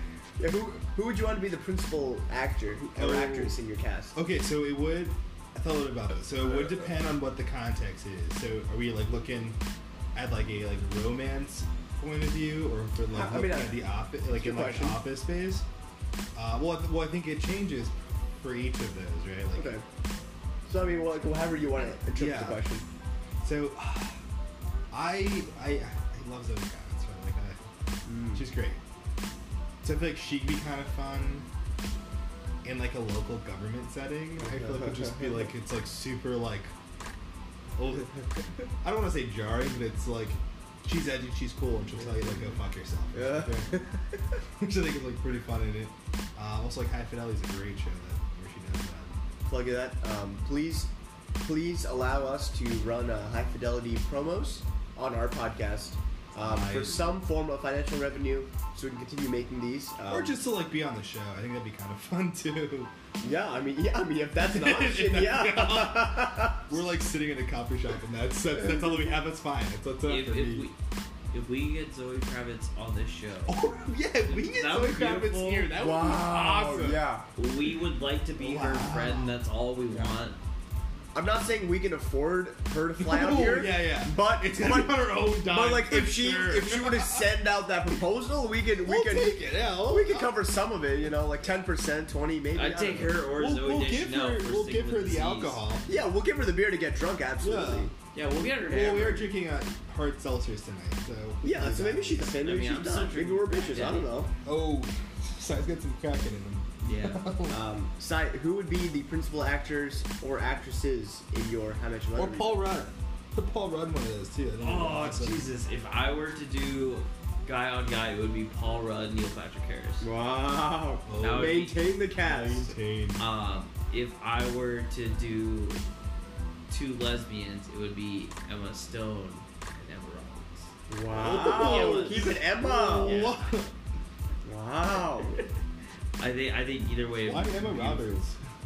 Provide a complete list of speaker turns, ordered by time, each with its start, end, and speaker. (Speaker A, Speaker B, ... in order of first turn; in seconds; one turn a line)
Speaker A: 0.4-4.2
Speaker B: 3.0-3.6
Speaker B: 4.2-9.6
Speaker B: 10.2-15.7
Speaker A: 13.1-15.1
Speaker B: 16.4-19.7
Speaker A: 19.6-19.8
Speaker A: 20.7-22.9
Speaker B: 22.1-22.6
Speaker B: 23.4-24.2
Speaker B: 24.9-27.6
Speaker A: 28.1-28.4
Speaker B: 28.4-28.8
Speaker B: 29.8-31.5
Speaker B: 32.6-36.7
Speaker A: 34.4-35.5
Speaker B: 37.8-38.1
Speaker B: 38.8-44.0
Speaker A: 42.0-42.6
Speaker A: 43.1-44.0
Speaker B: 44.5-49.2
Speaker A: 49.5-60.4
Speaker B: 56.4-57.1
Speaker B: 60.1-62.9
Speaker A: 63.2-66.8
Speaker B: 64.4-70.7
Speaker C: 70.1-70.8
Speaker C: 71.3-73.6
Speaker B: 73.5-77.0
Speaker C: 74.2-75.7
Speaker A: 75.8-77.3
Speaker C: 77.4-80.4
Speaker B: 78.4-79.3
Speaker B: 79.9-80.2
Speaker A: 81.1-93.2
Speaker B: 83.0-87.3
Speaker B: 88.8-90.4
Speaker C: 92.5-95.6
Speaker B: 93.4-95.9
Speaker A: 95.9-97.9
Speaker B: 97.4-97.9
Speaker C: 98.1-99.3
Speaker B: 98.7-102.4
Speaker A: 101.4-104.3
Speaker C: 102.4-104.1
Speaker B: 104.5-107.6
Speaker C: 106.8-107.2
Speaker A: 107.5-112.6
Speaker B: 112.2-115.5
Speaker C: 114.6-120.1
Speaker A: 120.0-122.8
Speaker B: 121.1-121.6
Speaker C: 121.2-121.8
Speaker B: 122.2-123.2
Speaker C: 123.2-125.8
Speaker C: 126.7-130.7
Speaker A: 130.9-133.2
Speaker B: 131.1-133.7
Speaker C: 131.3-132.3
Speaker C: 133.0-133.6
Speaker A: 134.4-135.4
Speaker C: 135.0-135.5
Speaker C: 136.2-138.2
Speaker B: 137.2-138.4